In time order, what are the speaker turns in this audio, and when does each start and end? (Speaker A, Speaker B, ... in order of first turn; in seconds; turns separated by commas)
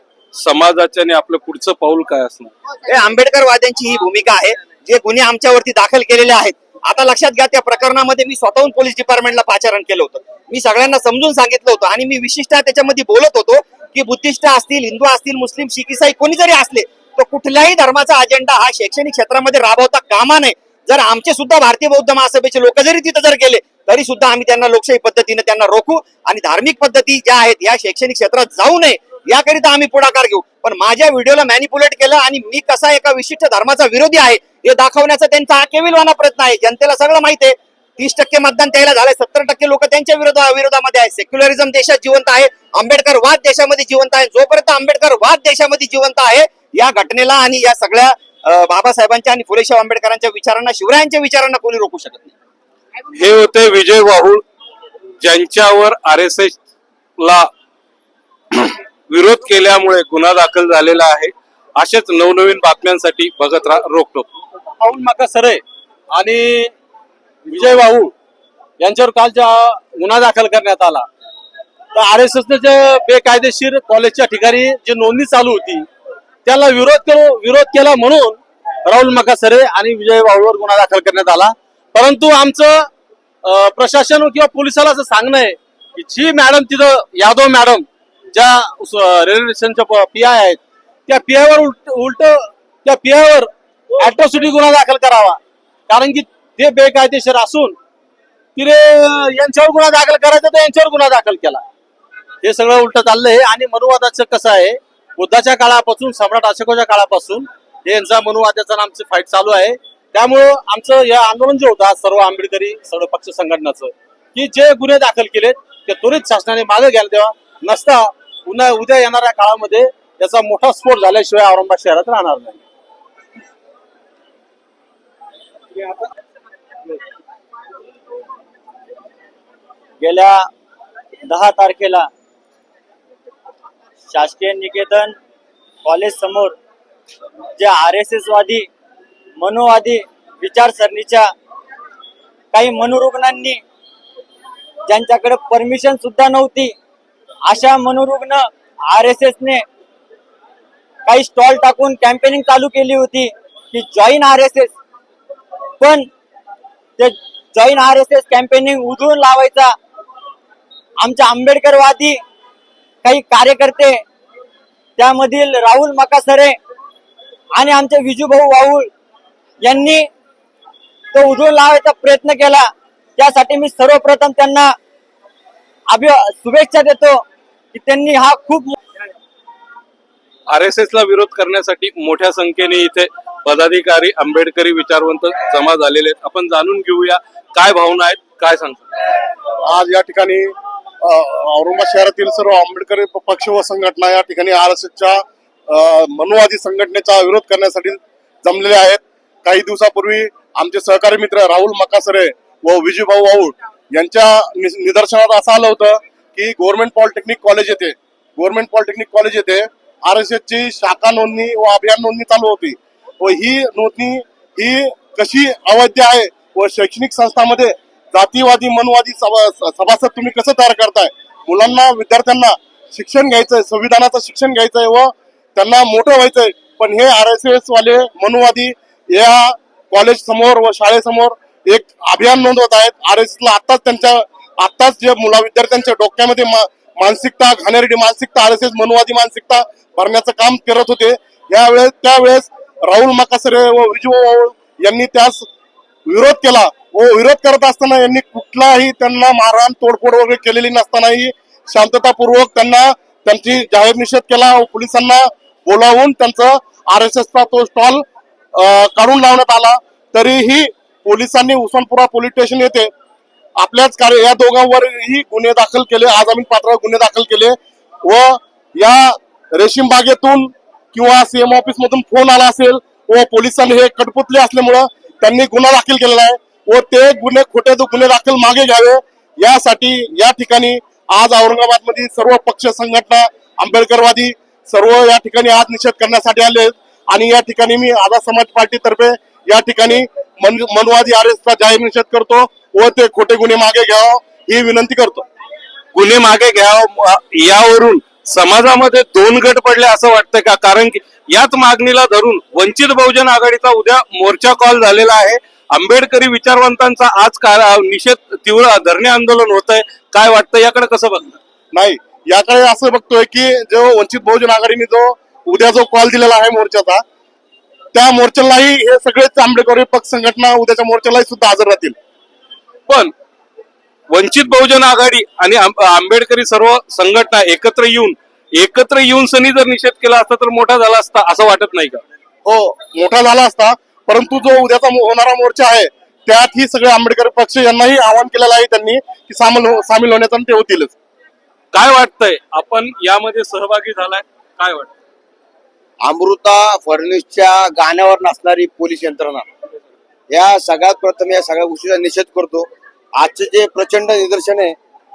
Speaker A: 0.3-2.5, Speaker B: 2.9-52.3, Speaker A: 53.1-54.4, Speaker A: 55.2-56.6, Speaker A: 57.2-57.5, Speaker A: 58.5-64.3, Speaker C: 64.8-66.7, Speaker C: 67.5-68.1, Speaker C: 68.8-71.0, Speaker C: 71.9-75.9, Speaker C: 76.4-82.9, Speaker C: 83.4-97.8, Speaker C: 98.5-101.6, Speaker C: 102.4-122.6, Speaker C: 125.7-126.1, Speaker D: 130.0-130.5, Speaker D: 131.2-132.1, Speaker D: 134.1-135.2, Speaker D: 135.8-136.6, Speaker D: 137.6-138.7, Speaker D: 139.4-141.3, Speaker D: 142.5-143.6, Speaker D: 144.9-146.8, Speaker D: 147.4-149.6, Speaker D: 151.1-154.7, Speaker D: 155.8-156.1, Speaker D: 157.0-159.8, Speaker D: 161.0-162.2, Speaker D: 163.0-164.0, Speaker D: 165.0-166.6, Speaker D: 167.5-168.9, Speaker D: 169.6-170.1, Speaker D: 171.1-174.8, Speaker D: 175.9-178.8, Speaker A: 180.5-188.9, Speaker E: 189.7-245.5, Speaker E: 246.1-262.9, Speaker E: 263.6-295.2, Speaker A: 295.9-311.4, Speaker E: 311.7-317.0, Speaker E: 317.9-321.9, Speaker A: 322.9-323.1, Speaker A: 324.1-332.0, Speaker E: 332.5-340.9, Speaker A: 341.7-344.9, Speaker F: 346.0-349.5, Speaker F: 350.3-354.8